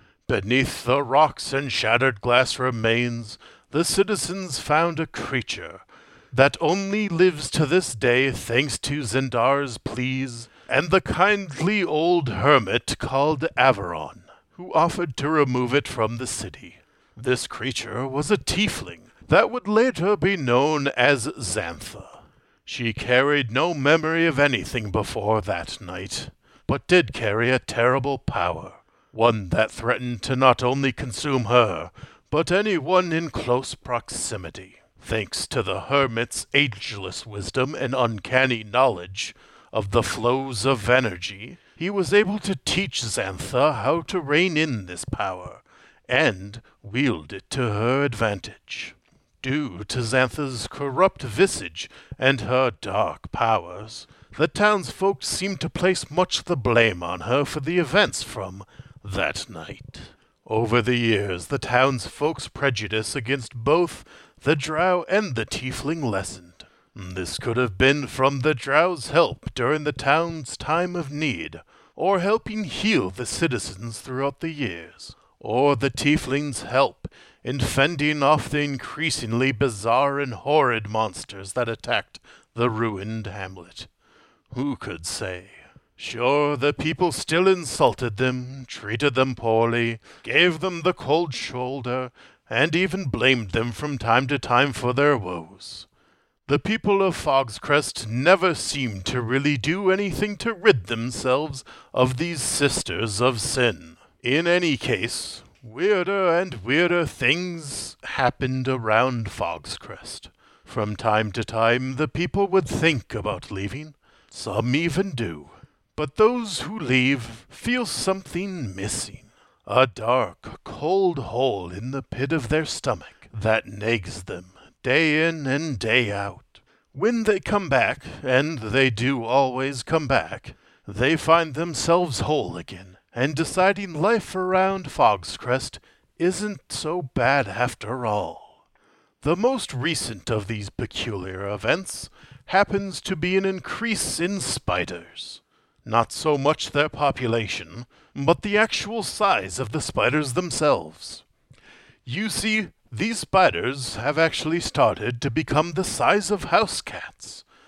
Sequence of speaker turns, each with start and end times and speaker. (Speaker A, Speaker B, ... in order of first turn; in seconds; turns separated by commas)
Speaker A: 0.3-83.9, Speaker A: 84.5-95.8, Speaker A: 96.5-138.5, Speaker A: 139.2-151.2, Speaker A: 152.0-157.4